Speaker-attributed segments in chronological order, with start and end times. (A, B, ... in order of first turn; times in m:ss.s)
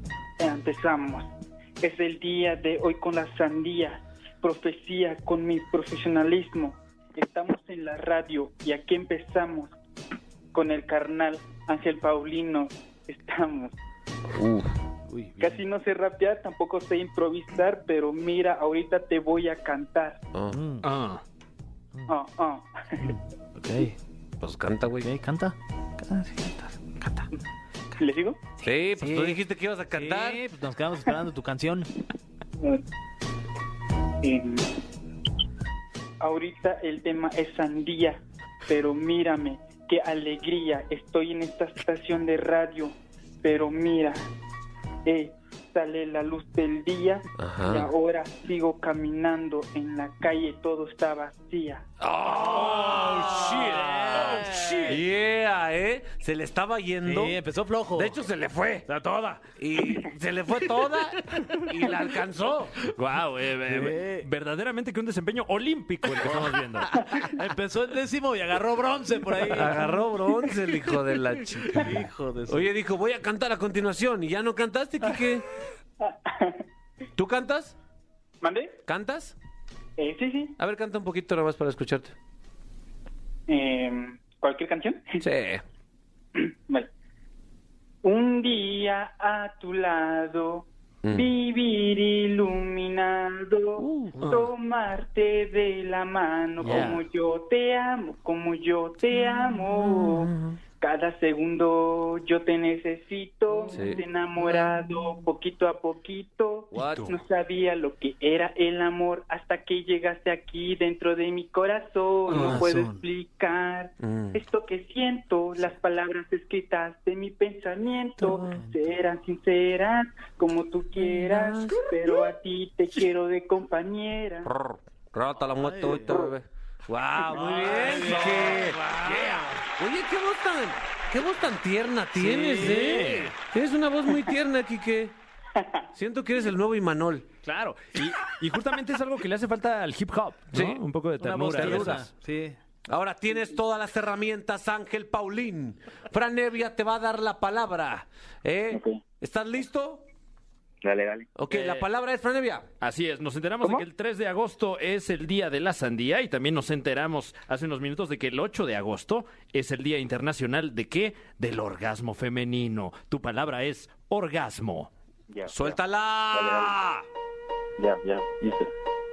0:00.4-0:09.7 A
0:10.5-0:13.8 A
0:14.4-0:14.7 B
0:15.1-0:15.6 C
0:15.4-0:20.2 A
0:20.5-0:20.9 C
0:20.8-0:21.2 D
0:22.1-0:23.1 A
0:23.0-0:24.0 C
0:24.4-0:25.1 B
0:25.0-0:27.3 C
0:28.0-0:28.4 A
0:28.6-0:30.4 B
0:29.0-0:31.9 C
0:34.2-0:34.7 A
0:36.2-0:44.3 A
0:45.0-0:51.9 A
0:47.4-0:47.9 B
0:52.0-0:54.3 B
0:52.3-0:55.0 D
0:52.4-0:55.0 C
0:54.9-0:57.4 B
0:57.0-0:58.2 C
0:58.0-0:58.9 B
0:58.9-0:59.4 C
0:59.6-1:02.8 B
1:02.9-1:07.1 D
1:03.7-1:04.3 C
1:06.9-1:10.0 C
1:09.4-1:15.5 B
1:11.7-1:12.7 C
1:16.0-1:16.6 A
1:17.2-1:17.8 B
1:18.4-1:18.8 A
1:18.9-1:19.4 B
1:20.0-1:20.6 A
1:20.6-1:22.1 B
1:23.5-1:25.2 A
1:25.2-1:25.6 B
1:26.4-1:26.9 A
1:28.0-2:04.5 A
1:31.0-1:31.3 B
1:33.8-1:34.3 B
1:36.6-1:37.0 C
1:39.3-1:40.6 B
1:43.7-1:44.0 B
1:46.7-1:47.2 B
1:52.3-1:53.0 C
1:52.3-1:52.6 B
1:54.0-1:54.4 B
1:58.2-1:58.6 B
2:01.0-2:02.0 B
2:04.4-2:15.2 B
2:05.6-2:06.3 C
2:07.2-2:09.2 C
2:07.6-2:09.5 D
2:12.2-2:13.3 C
2:12.5-2:13.3 D
2:16.0-2:17.3 B
2:17.5-2:22.1 D
2:20.5-2:20.8 B
2:21.2-2:22.6 C
2:21.6-2:22.0 B
2:22.9-2:30.0 B
2:28.7-2:29.0 E
2:30.8-2:31.3 E
2:31.4-2:32.7 B
2:31.5-2:31.9 D
2:32.8-2:44.9 D
2:45.3-2:45.8 E
2:45.5-2:47.0 B
2:46.3-2:46.8 E
2:47.8-2:48.7 E